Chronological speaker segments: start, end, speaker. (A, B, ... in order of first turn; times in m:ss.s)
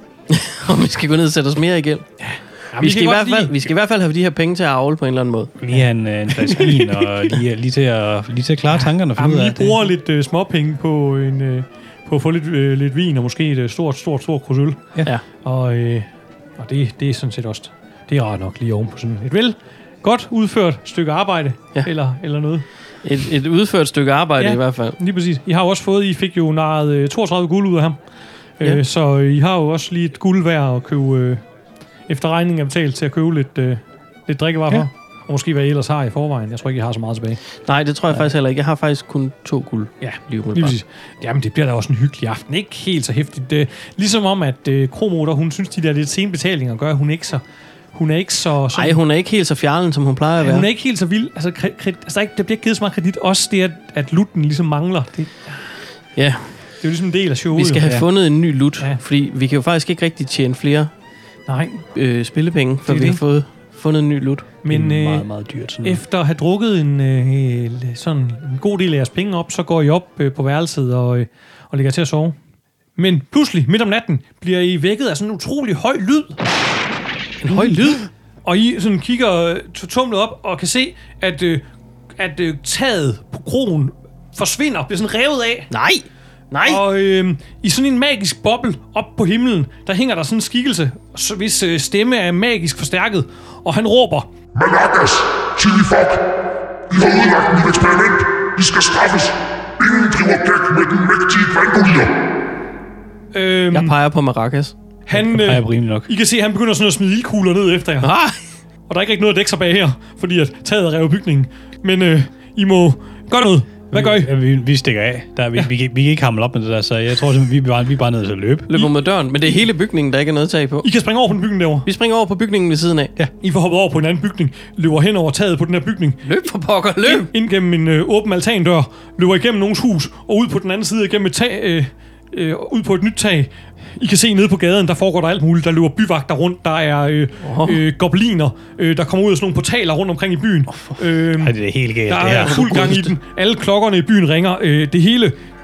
0:00.3-0:02.1 A
0:02.2-0:03.7 B
0:02.8-0:05.6 A
0:05.6-0:09.9 C
0:09.1-0:22.6 B
0:23.0-0:25.0 A
0:24.4-0:28.0 B
0:28.6-0:31.4 B
0:32.1-0:37.4 B
0:37.6-0:40.8 A
0:40.0-0:47.4 B
0:47.9-0:49.0 B
0:48.7-0:50.7 A
0:50.4-0:55.6 B
0:56.2-0:56.5 A
0:56.8-0:58.0 B
0:57.5-1:00.9 A
1:01.5-1:01.8 B
1:01.9-1:04.5 A
1:02.8-1:03.2 C
1:04.6-1:05.3 B
1:04.7-1:06.0 C
1:05.8-1:12.4 B
1:13.0-1:16.4 B
1:17.4-1:17.9 A
1:17.4-1:21.6 B
1:22.2-1:25.7 B
1:25.7-1:26.8 A
1:26.6-1:34.3 B
1:34.5-1:36.2 D
1:36.9-1:42.1 D
1:43.3-1:44.0 B
1:43.7-1:44.7 A
1:45.1-1:48.1 B
1:45.1-1:46.1 C
1:48.0-1:48.4 A
1:48.9-1:54.3 B
1:53.9-1:58.7 C
1:58.7-2:00.9 A
2:00.8-2:01.9 B
2:01.8-2:03.1 A
2:03.4-2:06.2 B
2:06.2-2:07.3 A
2:07.0-2:21.6 B
2:17.4-2:17.8 A
2:20.7-2:23.0 C
2:22.1-2:25.4 B
2:22.4-2:23.1 A